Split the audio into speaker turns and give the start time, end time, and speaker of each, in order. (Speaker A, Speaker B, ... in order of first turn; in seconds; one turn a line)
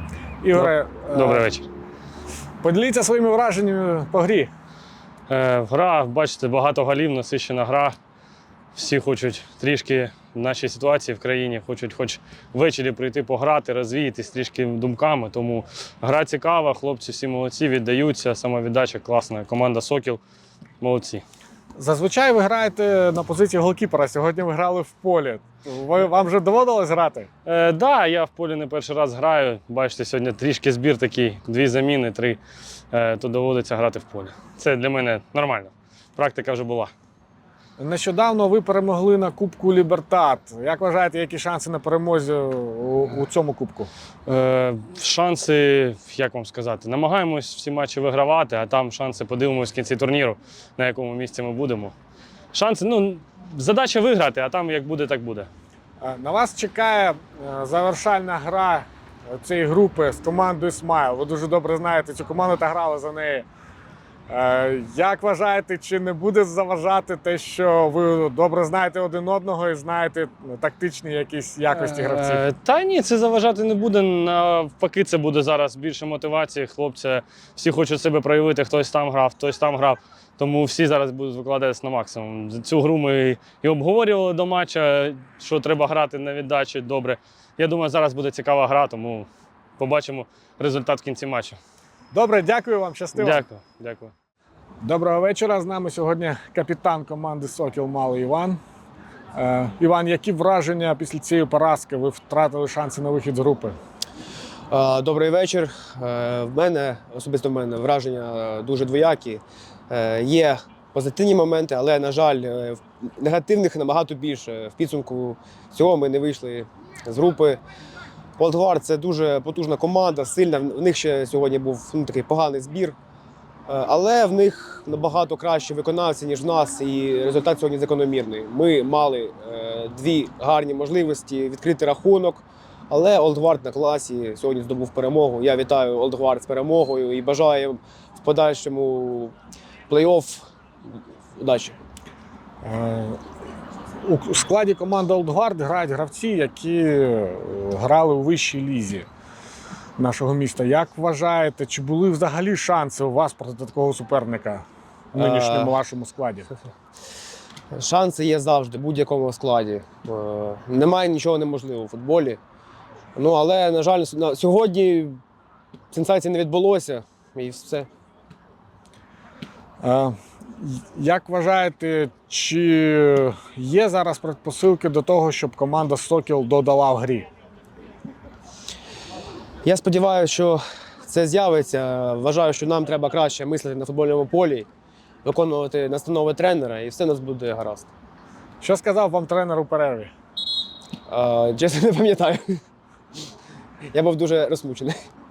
Speaker A: 0.4-1.5
Speaker B: 0.5-1.7
Speaker A: 2.6-4.5
Speaker B: 5.3-8.0
Speaker B: 8.7-20.2
Speaker B: 20.8-21.2
Speaker A: 21.8-27.3
Speaker B: 27.4-32.4
Speaker B: 32.9-36.9
Speaker A: 37.8-43.9
Speaker B: 44.2-51.9
Speaker B: 52.5-55.5
Speaker A: 56.0-63.5
Speaker A: 64.3-72.4
Speaker B: 71.7-91.6
Speaker A: 92.1-93.4
Speaker B: 93.1-94.1
Speaker A: 94.8-98.6
Speaker A: 99.3-103.8
Speaker C: 104.7-117.6
Speaker C: 118.4-123.0
Speaker C: 123.7-139.3
Speaker C: 139.9-140.4
Speaker C: 141.4-141.8
Speaker A: 142.6-143.2
Speaker A: 144.0-149.1
Speaker A: 150.0-156.5
Speaker C: 155.2-155.8
Speaker C: 157.7-162.4
Speaker C: 163.1-165.2
Speaker C: 165.9-167.9
Speaker A: 169.8-177.3
Speaker C: 179.6-184.7
Speaker C: 185.2-187.9
Speaker A: 188.6-190.1
Speaker C: 191.1-192.6
Speaker C: 193.9-195.0